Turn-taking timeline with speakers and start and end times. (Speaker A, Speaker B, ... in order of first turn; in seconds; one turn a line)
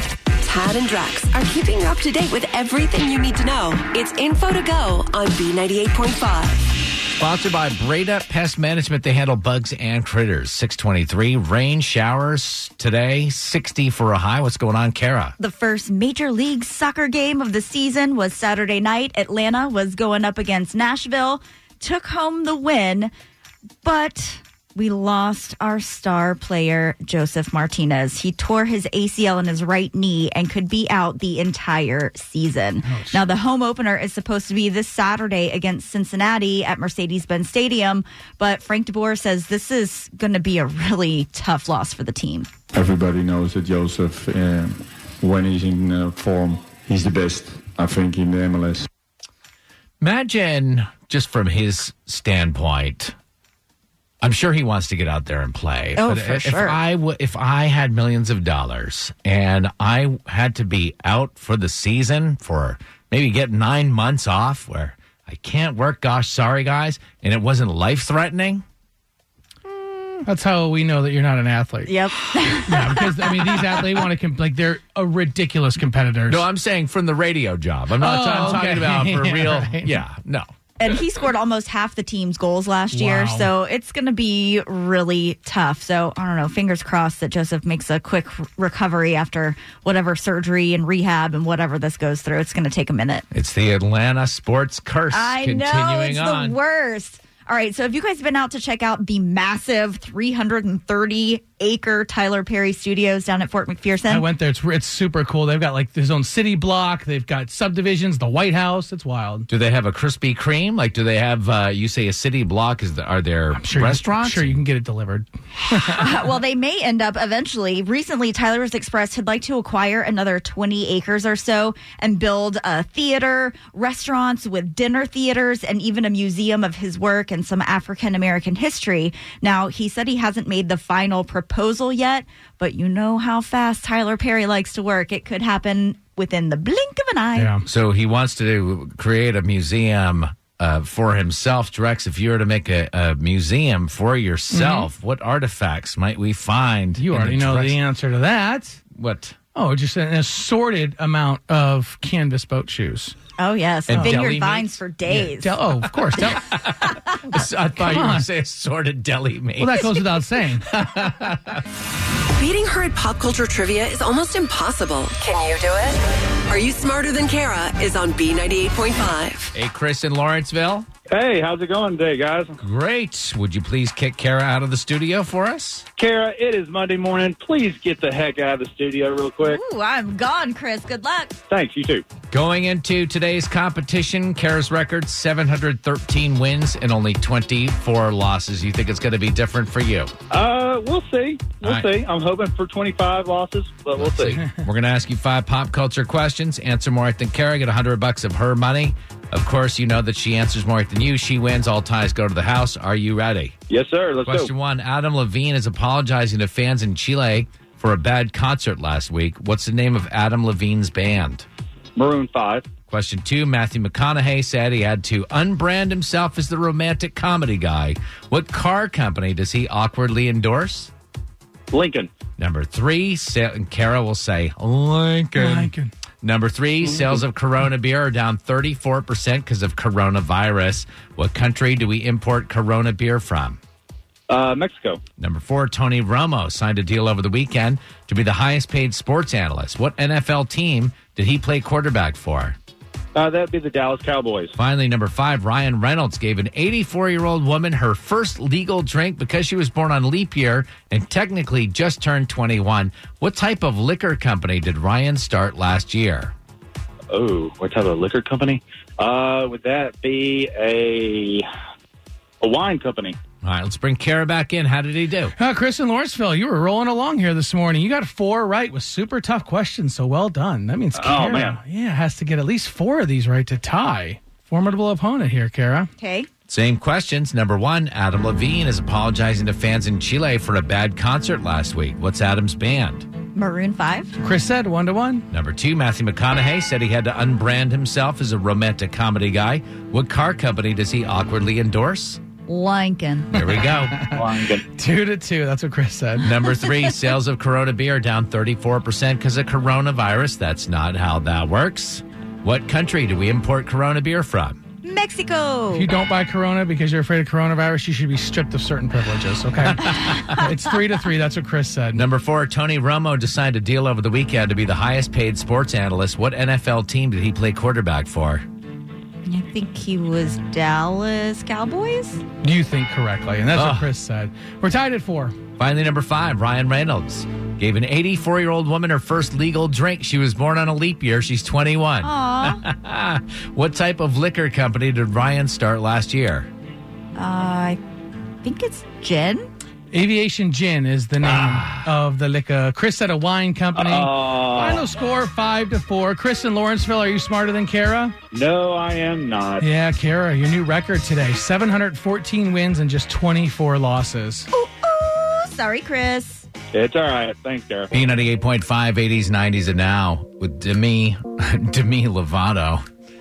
Speaker A: 0.4-6.7
Speaker B: 7.2-15.3
Speaker C: 15.4-23.1
Speaker C: 23.8-42.5
Speaker D: 32.8-33.2
Speaker E: 42.7-48.9
Speaker B: 50.0-53.1
Speaker B: 54.2-68.6
Speaker C: 56.0-56.8
Speaker D: 70.2-71.9
Speaker C: 71.8-73.5
Speaker D: 72.6-76.4
Speaker B: 76.3-80.5
Speaker D: 78.0-80.0
Speaker C: 80.8-93.2
Speaker D: 82.9-83.5
Speaker B: 93.3-96.6
Speaker C: 95.1-104.2
Speaker D: 104.1-109.5
Speaker B: 109.5-114.6
Speaker D: 113.5-116.2
Speaker C: 115.9-137.5
Speaker D: 137.3-137.7
Speaker B: 137.6-147.8
Speaker D: 144.5-144.9
Speaker D: 147.0-148.8
Speaker B: 148.9-149.4
Speaker D: 149.5-153.2
Speaker C: 153.4-155.6
Speaker B: 153.9-154.8
Speaker D: 153.9-154.2
Speaker D: 155.1-156.6
Speaker B: 156.2-161.6
Speaker D: 157.8-158.2
Speaker D: 159.6-160.7
Speaker A: 162.3-169.5
Speaker B: 169.5-170.9
Speaker F: 171.1-172.6
Speaker B: 172.6-175.8
Speaker F: 176.0-179.6
Speaker C: 179.4-181.4
Speaker F: 181.5-182.0
Speaker B: 182.3-190.1
Speaker F: 190.3-194.4
Speaker B: 191.6-191.9
Speaker B: 193.9-203.6
Speaker F: 203.7-204.5
Speaker B: 204.2-211.4
Speaker F: 211.9-212.7
Speaker B: 212.9-220.9
Speaker F: 221.7-222.1
Speaker B: 222.4-233.6
Speaker D: 225.4-225.9
Speaker F: 234.3-235.0
Speaker B: 235.2-242.6
Speaker F: 243.1-244.6
Speaker B: 244.6-256.3
Speaker F: 257.1-261.5
Speaker F: 262.4-263.2
Speaker B: 263.4-265.3
Speaker D: 265.4-275.9
Speaker F: 270.9-271.6
Speaker C: 276.0-276.3
Speaker B: 276.5-283.1
Speaker C: 283.3-284.2
Speaker D: 284.2-285.3
Speaker B: 285.3-292.2
Speaker C: 292.5-293.4
Speaker B: 293.3-294.0
Speaker D: 293.4-296.3
Speaker F: 294.1-294.6
Speaker B: 296.2-304.6
Speaker C: 304.8-305.9
Speaker D: 305.7-312.0
Speaker B: 309.6-310.5
Speaker B: 311.9-318.4
Speaker C: 319.2-322.2
Speaker D: 322.4-325.4
Speaker B: 323.5-323.9
Speaker B: 325.6-336.5
Speaker C: 332.0-332.6
Speaker C: 337.1-337.8
Speaker C: 338.4-339.5
Speaker D: 339.9-348.1
Speaker B: 341.2-341.9
Speaker F: 343.7-344.9
Speaker F: 348.3-349.7
Speaker D: 349.6-354.5
Speaker C: 354.5-356.5
Speaker F: 356.7-357.9
Speaker B: 357.9-362.8